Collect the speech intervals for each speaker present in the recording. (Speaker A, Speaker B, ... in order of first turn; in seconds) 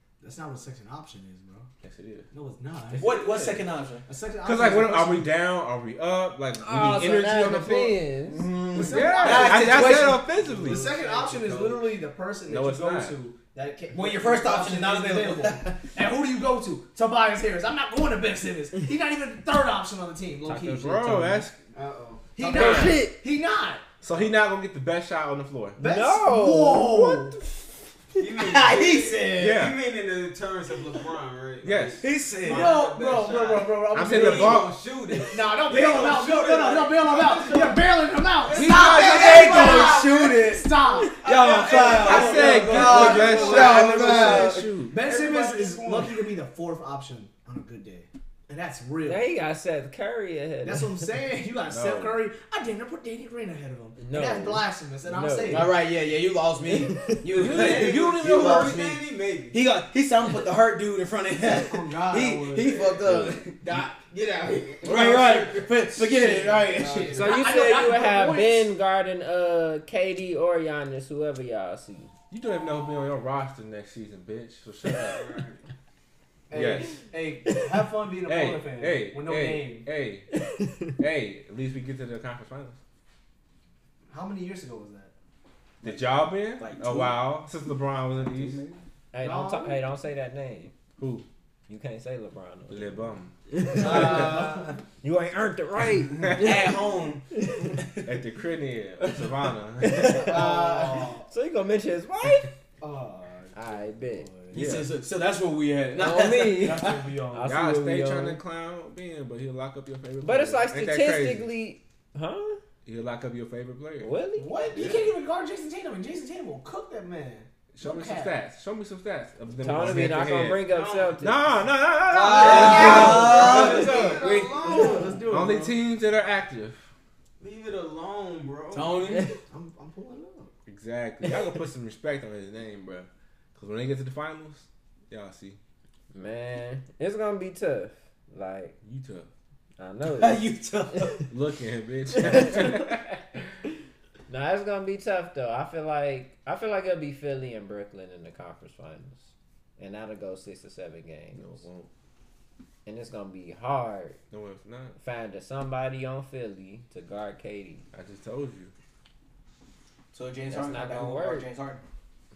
Speaker A: 0.2-1.7, 2.3-3.2, 4.0-5.3, 8.7-21.2, 22.4-23.8, 25.8-27.4, 32.4-34.7, 35.3-49.3, 50.6-55.7, 61.5-62.9, 66.1-68.7, 76.5-79.9, 84.1-85.1, 89.2-89.8, 93.7-94.8, 100.1-101.3, 102.8-104.6, 105.9-107.5, 114.3-118.3, 122.3-125.8, 129.5-130.5
Speaker B: 1.8-2.3, 2.9-3.6, 4.4-8.0, 8.8-10.9, 12.5-13.2, 20.8-21.6, 22.5-23.0, 24.0-25.8, 29.4-29.8, 31.6-32.0, 33.9-34.7, 38.5-39.6, 41.9-45.0, 51.7-52.2, 57.3-58.8, 72.3-75.3, 76.5-77.0, 78.3-80.3, 81.0-82.8, 85.8-88.6, 91.0-91.2, 92.7-93.3, 98.0-100.4, 104.5-104.9, 107.4-111.5, 112.8-114.1, 117.7-120.7, 121.2-126.8, 130.7-135.6, 138.8-139.3, 141.3-143.1, 151.3-151.9, 154.3-154.9, 157.9-158.7
Speaker C: 3.0-4.0, 8.2-10.2, 13.9-15.8, 28.4-29.5, 32.0-32.8, 38.6-44.6, 55.5-63.6, 64.8-67.1, 86.6-87.3, 96.3-98.0, 104.5-107.1, 122.1-124.2, 128.7-129.3, 140.0-141.2, 160.1-161.8
Speaker D: 6.6-8.5, 20.4-21.4, 22.5-23.1, 25.8-27.3, 49.0-51.1, 54.0-55.7, 67.1-72.1, 89.1-90.7, 91.7-96.7, 99.8-102.5, 103.5-104.3, 106.0-108.4, 110.2-112.6, 114.0-114.9, 119.6-121.5, 136.1-138.8, 139.8-140.5, 142.2-142.9, 144.3-149.3, 149.8-151.6, 152.8-154.2, 155.0-157.8, 160.5-161.4
Speaker E: 10.3-12.0, 21.7-22.4, 24.1-24.3, 28.2-40.3, 41.1-46.2, 57.3-59.6, 62.7-62.9, 63.6-65.7, 66.7-67.4, 74.9-75.6, 120.7-121.2, 122.3-125.2, 127.4-129.0